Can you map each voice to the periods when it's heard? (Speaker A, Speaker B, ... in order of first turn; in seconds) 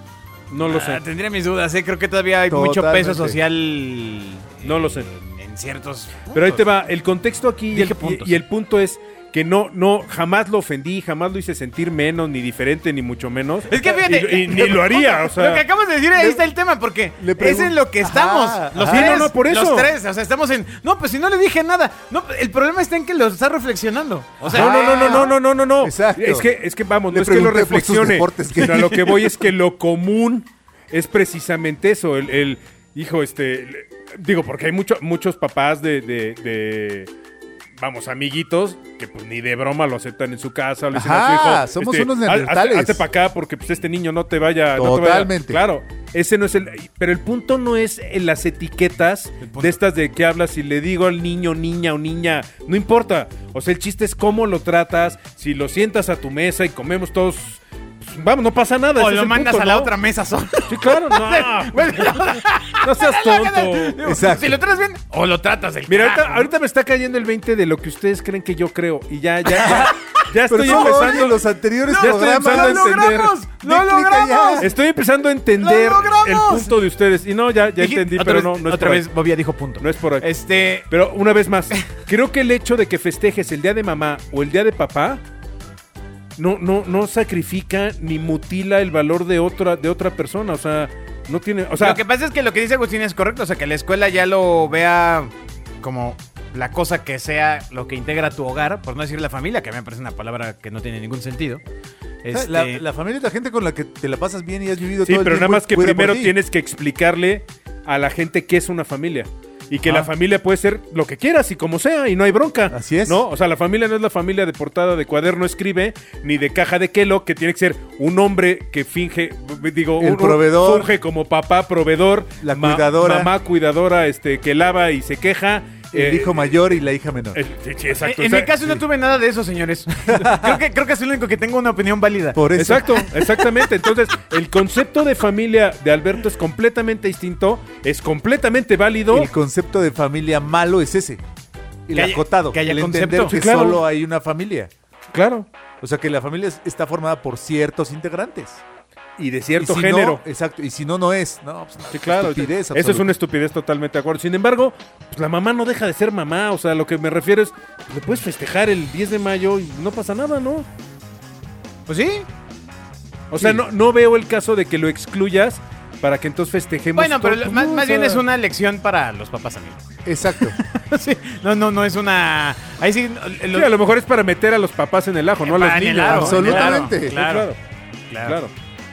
Speaker A: 0.5-1.0, 4.6-5.1, 6.3-15.6, 18.9-19.9, 24.4-37.1, 37.8-59.9, 60.7-64.0, 65.9-73.4, 74.6-79.1, 79.8-80.3, 80.9-85.2, 86.4-92.0, 105.0-126.5, 127.3-128.8, 132.6-139.3, 143.3-143.8, 145.1-145.5, 149.2-150.2, 151.9-160.7, 163.3-168.2, 173.5-177.6, 178.2-178.5
Speaker B: 0.6-6.7, 7.7-8.4, 13.7-25.3, 49.4-49.8, 59.0-66.5, 69.5-71.2, 71.8-74.7, 75.6-76.7, 77.8-80.9, 91.8-101.6, 102.2-102.8, 128.0-133.6, 141.9-143.4, 161.9-162.3, 166.9-173.7, 175.4-177.5, 178.1-178.4
Speaker C: 2.5-3.4, 17.2-19.3, 24.5-26.5, 27.1-29.3, 40.9-43.0, 44.8-45.6, 64.0-64.6, 70.5-73.1, 73.6-74.7, 102.3-106.3, 112.7-113.2, 120.0-120.9, 122.4-123.3, 125.9-127.4, 130.1-130.6, 132.3-133.1, 139.1-141.2, 141.9-144.7, 145.8-148.6, 149.6-153.1, 163.4-163.6, 170.1-170.6, 176.1-177.2